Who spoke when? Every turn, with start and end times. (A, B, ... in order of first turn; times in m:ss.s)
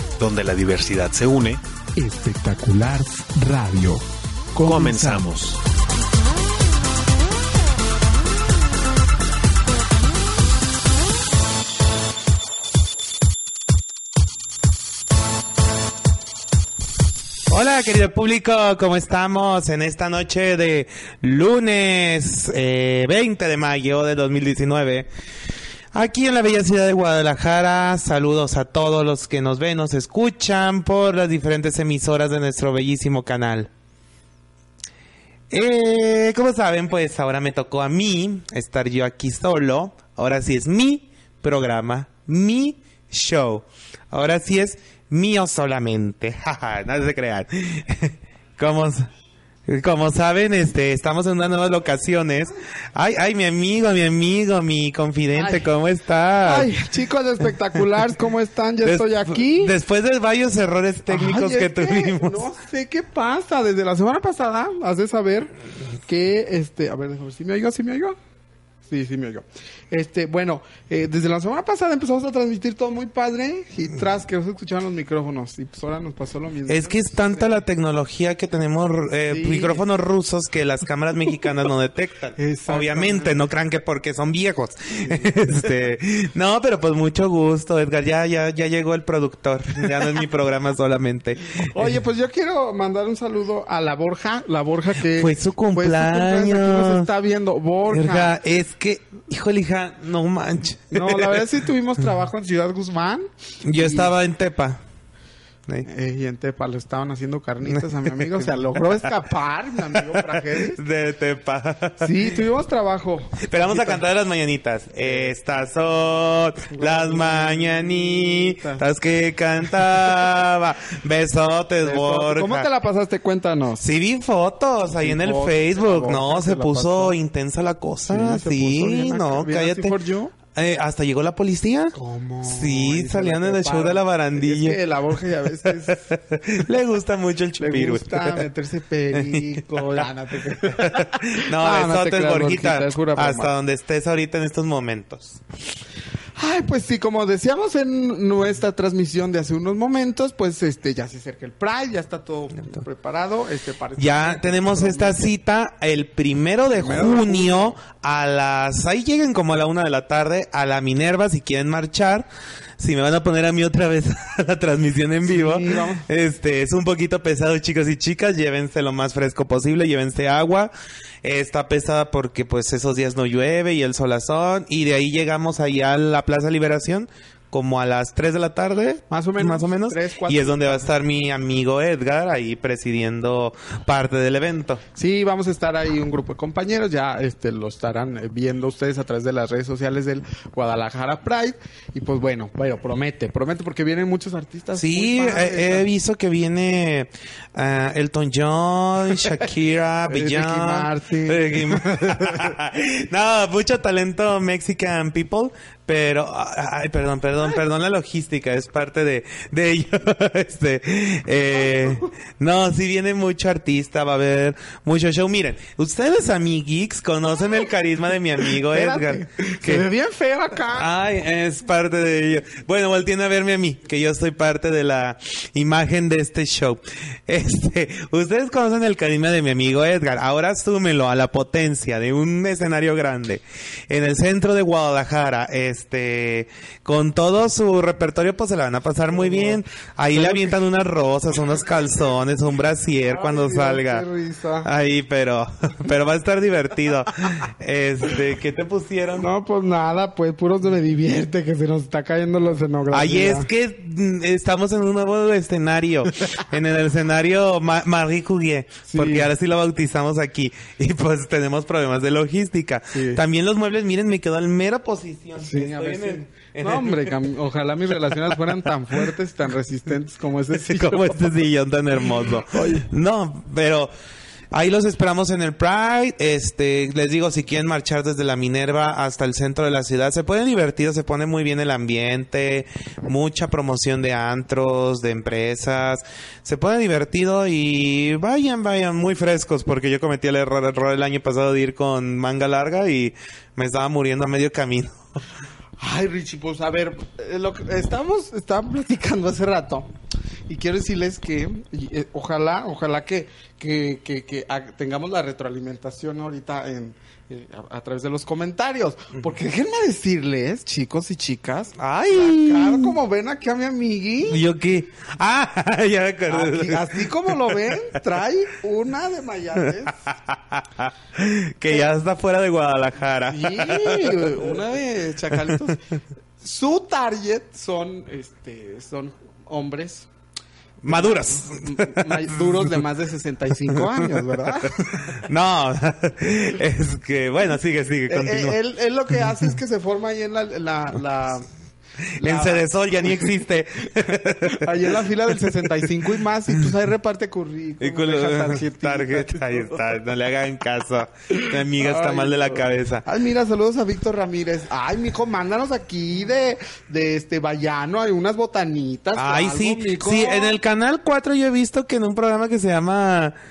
0:00.2-0:01.6 A
0:02.0-0:05.3 B
0:04.6-0:05.6 A
0:17.5-0:25.1 C
0:25.9-0:33.7 C
0:35.5-0:49.1 C
0:49.7-0:56.7 C
0:55.4-0:55.7 B
0:56.4-0:59.8 B
0:58.8-1:02.5 C
1:01.1-1:05.5 B
1:06.1-1:08.2 B
1:08.9-1:17.5 B
1:16.7-1:32.0 C
1:19.3-1:19.8 B
1:22.4-1:23.4 B
1:25.0-1:25.3 B
1:31.6-1:38.3 B
1:35.2-1:37.1 C
1:37.9-1:41.4 C
1:40.9-1:44.1 B
1:43.6-1:44.8 C
1:45.9-1:50.8 B
1:47.7-1:48.4 C
1:49.9-1:52.3 C
1:52.0-1:54.0 B
1:53.4-2:02.7 C
1:55.0-1:55.4 B
1:56.7-1:58.8 B
2:01.8-2:03.8 B
2:03.8-2:09.9 C
2:05.0-2:07.2 B
2:08.1-2:10.4 B
2:10.5-2:12.0 C
2:11.9-2:16.2 B
2:12.5-2:14.8 C
2:15.6-2:18.5 C
2:17.6-2:23.5 B
2:19.1-2:20.0 C
2:20.7-2:25.4 C
2:26.4-2:35.3 B
2:34.0-2:50.7 C
2:36.7-2:37.8 B
2:45.2-2:46.1 B
2:51.2-3:04.8 C
2:59.1-3:00.9 B
3:05.0-3:15.9 B
3:14.8-3:39.9 C
3:20.1-3:22.5 B
3:31.7-3:32.1 B
3:38.5-3:40.9 B
3:40.7-4:04.0 C
3:59.1-3:59.6 B
4:00.1-4:00.6 B
4:03.1-4:04.7 B
4:04.6-4:09.3 C
4:09.2-4:13.5 B
4:12.9-4:27.1 C
4:18.9-4:19.3 B
4:22.9-4:23.2 B
4:25.4-4:31.2 B
4:30.5-4:33.9 C
4:32.5-4:32.9 B
4:34.5-4:55.2 C
4:55.8-4:59.9 B
5:00.5-5:14.4 B
5:11.8-5:13.0 C
5:14.3-5:17.9 C
5:16.3-5:20.1 B
5:20.1-5:24.4 C
5:23.3-5:25.8 B
5:25.3-5:25.8 C
5:26.4-5:30.1 B
5:30.8-5:32.7 C
5:30.8-5:35.2 B
5:33.8-5:38.6 C
5:38.1-5:41.5 B
5:42.2-5:42.7 B
5:42.2-5:45.1 C
5:44.4-5:49.8 B
5:47.8-5:53.1 C
5:51.3-6:00.6 B
5:59.2-6:03.4 C